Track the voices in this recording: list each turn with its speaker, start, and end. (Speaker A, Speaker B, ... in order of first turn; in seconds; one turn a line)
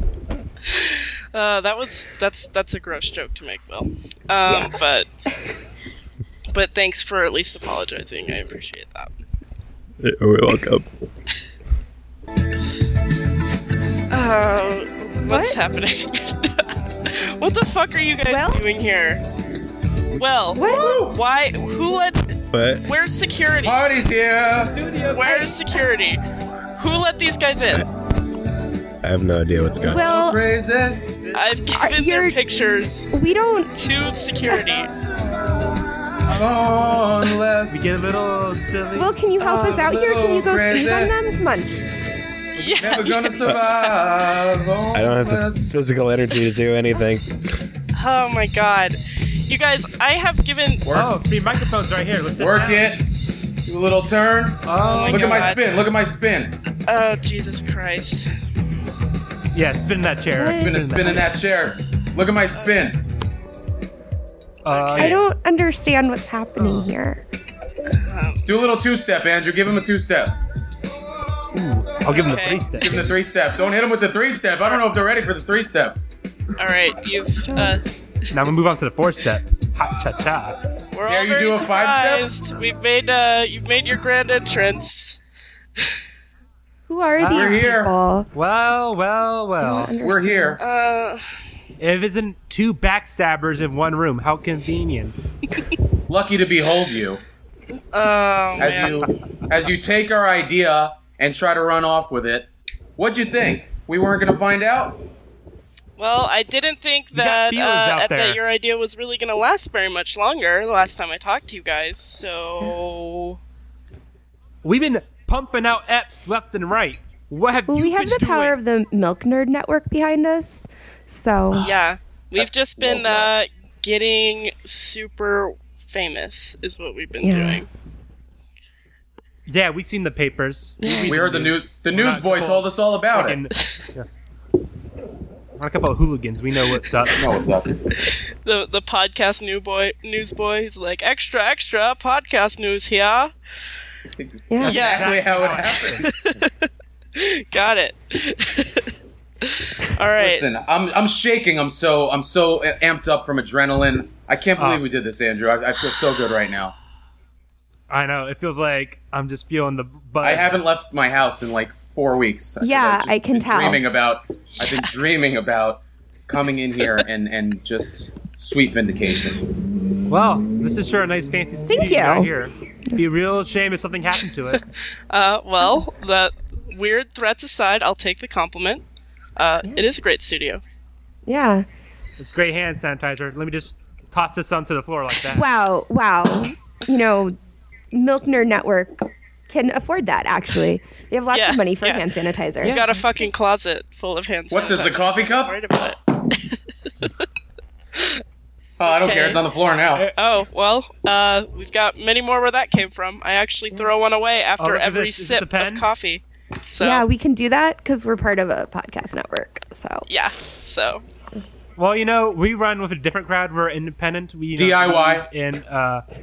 Speaker A: 0.6-5.1
Speaker A: 6.5-9.1
Speaker B: 10.0-10.8
Speaker A: 14.1-19.2
Speaker C: 15.2-15.6
Speaker C: 18.3-18.6
Speaker A: 20.1-22.3
Speaker C: 20.5-21.1
Speaker D: 20.7-21.0
Speaker B: 22.5-22.9
Speaker A: 22.8-23.8
Speaker D: 23.6-24.8
Speaker E: 24.7-25.4
Speaker A: 25.1-26.2
Speaker C: 25.2-25.8
Speaker A: 26.7-27.8
Speaker B: 29.0-30.1
Speaker C: 29.8-30.4
Speaker D: 29.9-31.1
Speaker A: 31.3-33.1
Speaker C: 31.4-32.4
Speaker C: 33.1-33.7
Speaker A: 33.7-34.9
Speaker D: 36.3-38.0
Speaker E: 37.7-39.1
Speaker C: 39.0-41.8
Speaker D: 39.4-41.1
Speaker A: 42.6-43.5
Speaker D: 42.8-45.7
Speaker B: 44.9-47.4
Speaker A: 47.9-50.9
Speaker D: 50.9-51.1
Speaker E: 50.9-52.9
Speaker D: 52.4-53.1
Speaker D: 53.6-56.5
Speaker E: 54.6-55.6
Speaker A: 54.8-55.6
Speaker A: 56.9-58.4
Speaker E: 59.5-61.3
Speaker C: 60.3-61.0
Speaker D: 60.5-63.0
Speaker E: 64.6-65.2
Speaker A: 64.7-65.2
Speaker C: 65.0-67.2
Speaker A: 67.8-68.4
Speaker D: 68.5-70.3
Speaker E: 71.5-73.1
Speaker A: 72.0-72.6
Speaker D: 72.8-76.0
Speaker A: 76.6-77.8
Speaker C: 77.4-77.7
Speaker E: 78.3-80.6
Speaker A: 80.9-85.2
Speaker D: 81.0-82.3
Speaker C: 86.9-88.3
Speaker E: 87.2-87.7
Speaker D: 87.3-87.9
Speaker E: 88.3-90.0
Speaker C: 89.6-90.6
Speaker D: 90.0-90.6
Speaker A: 90.6-91.2
Speaker E: 91.8-95.2
Speaker D: 96.1-97.2
Speaker A: 97.9-99.1
Speaker D: 98.6-105.0
Speaker A: 106.0-113.4
Speaker E: 107.1-108.4
Speaker E: 114.6-118.6
Speaker C: 117.7-121.7
Speaker A: 121.6-127.7
Speaker D: 122.4-123.3
Speaker C: 127.2-127.6
Speaker E: 129.5-134.1
Speaker C: 130.8-131.2
Speaker D: 131.0-133.4
Speaker E: 135.6-137.3
Speaker D: 137.2-137.8
Speaker A: 138.0-143.3
Speaker D: 144.2-146.2
Speaker C: 144.5-144.8
Speaker E: 144.6-146.1
Speaker A: 144.7-150.4
Speaker D: 150.2-156.7
Speaker E: 154.6-154.8
Speaker E: 157.9-160.7
Speaker D: 160.2-169.4
Speaker C: 162.6-163.8
Speaker A: 164.5-164.8
Speaker E: 170.1-174.6
Speaker C: 171.7-172.3
Speaker A: 174.8-178.8
Speaker A: 179.4-180.6
Speaker C: 181.2-181.7
Speaker E: 182.2-185.6
Speaker C: 185.3-187.4
Speaker C: 187.9-193.0
Speaker A: 191.3-192.1
Speaker A: 192.6-197.1
Speaker E: 192.6-192.9
Speaker D: 194.5-195.6
Speaker A: 197.9-198.2
Speaker D: 198.8-200.1
Speaker A: 198.8-199.4
Speaker A: 200.1-207.1
Speaker E: 204.6-205.8
Speaker C: 206.8-210.1
Speaker A: 210.1-211.0
Speaker E: 211.8-216.0
Speaker D: 214.5-215.3